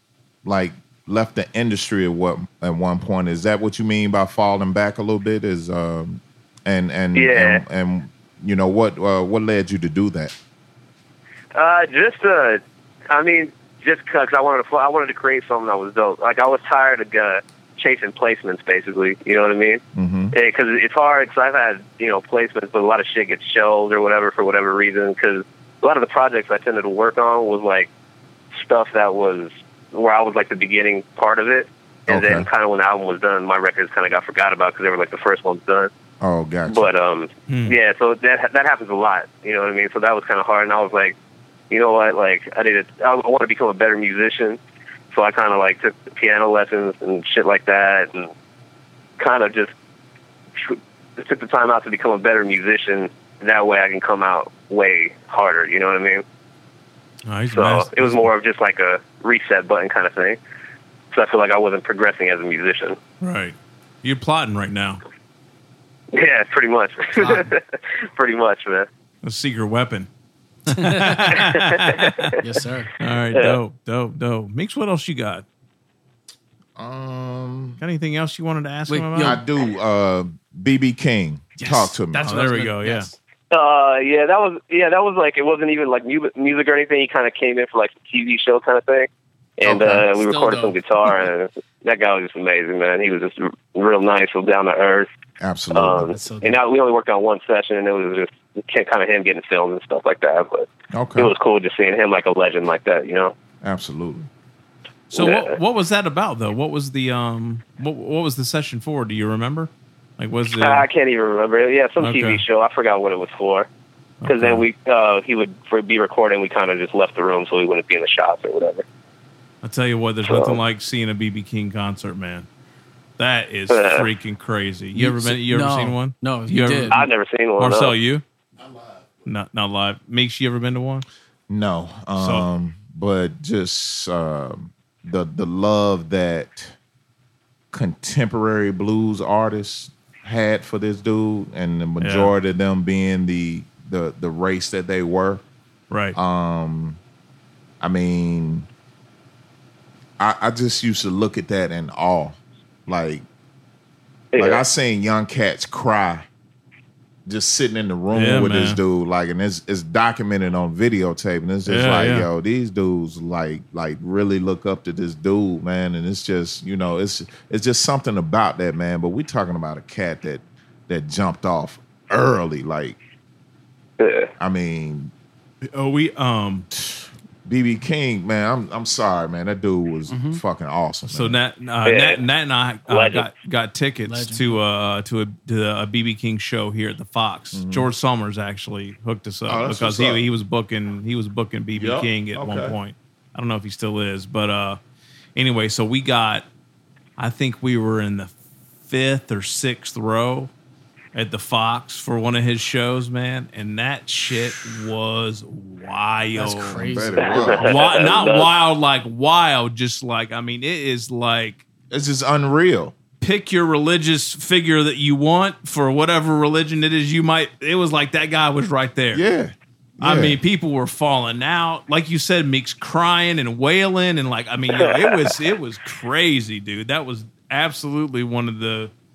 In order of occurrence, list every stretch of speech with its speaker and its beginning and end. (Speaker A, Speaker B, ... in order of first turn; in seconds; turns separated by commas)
Speaker A: 0.4-10.3, Speaker B: 7.1-7.6, Speaker B: 11.5-27.9, Speaker A: 19.9-20.3, Speaker B: 28.5-35.9, Speaker A: 32.1-32.5, Speaker A: 36.2-36.9, Speaker B: 36.7-41.1, Speaker C: 37.5-37.8, Speaker B: 41.7-44.6, Speaker B: 45.1-48.3, Speaker B: 49.2-49.7, Speaker B: 50.6-56.2, Speaker C: 57.3-58.3, Speaker B: 57.5-60.4, Speaker B: 61.1-63.0, Speaker C: 63.2-65.0, Speaker B: 66.1-68.9, Speaker D: 67.2-67.5, Speaker C: 69.2-70.1, Speaker C: 70.7-72.3, Speaker D: 70.7-71.4, Speaker B: 71.3-72.4, Speaker D: 72.4-72.9, Speaker C: 73.0-75.4, Speaker B: 73.3-73.6, Speaker A: 76.8-77.8, Speaker C: 77.8-79.4, Speaker D: 78.9-79.4, Speaker A: 79.2-82.3, Speaker D: 81.6-83.2, Speaker C: 82.2-83.1, Speaker B: 83.5-95.1, Speaker A: 89.6-90.1, Speaker D: 90.1-90.8, Speaker A: 95.4-96.1, Speaker B: 95.7-103.3, Speaker D: 96.1-96.6, Speaker A: 100.9-101.3, Speaker A: 103.6-104.3, Speaker C: 105.1-110.8, Speaker B: 105.1-105.6, Speaker B: 110.6-113.7, Speaker C: 112.0-112.4, Speaker C: 114.2-114.6, Speaker B: 114.2-118.8, Speaker C: 119.6-122.5, Speaker B: 120.2-120.6, Speaker C: 123.2-128.2, Speaker B: 123.7-124.1, Speaker D: 124.9-127.0, Speaker B: 126.9-127.9, Speaker C: 129.2-131.1, Speaker A: 131.5-136.7, Speaker C: 132.2-132.4, Speaker A: 137.7-145.4, Speaker C: 142.0-142.3, Speaker C: 145.9-146.2, Speaker A: 146.1-147.0, Speaker A: 147.8-148.7, Speaker A: 150.2-153.2, Speaker B: 154.3-154.6, Speaker A: 154.3-156.3, Speaker A: 157.2-173.0, Speaker C: 158.1-158.8, Speaker C: 161.7-162.3, Speaker B: 174.0-174.3, Speaker A: 174.4-175.1, Speaker C: 175.7-176.7, Speaker A: 176.7-181.4, Speaker D: 180.1-180.4, Speaker C: 181.1-194.8, Speaker B: 181.8-182.2, Speaker B: 182.9-183.2, Speaker D: 184.1-184.6, Speaker A: 187.5-187.9, Speaker A: 189.5-190.2, Speaker A: 191.8-192.8, Speaker C: 195.3-196.4, Speaker C: 197.2-198.3, Speaker C: 198.9-200.5, Speaker C: 201.1-206.8, Speaker D: 206.3-207.4, Speaker A: 206.7-207.8, Speaker B: 207.2-208.5, Speaker C: 207.6-211.6, Speaker A: 211.9-212.9, Speaker C: 213.2-219.2, Speaker A: 219.1-220.4, Speaker C: 220.0-228.9, Speaker B: 224.7-225.2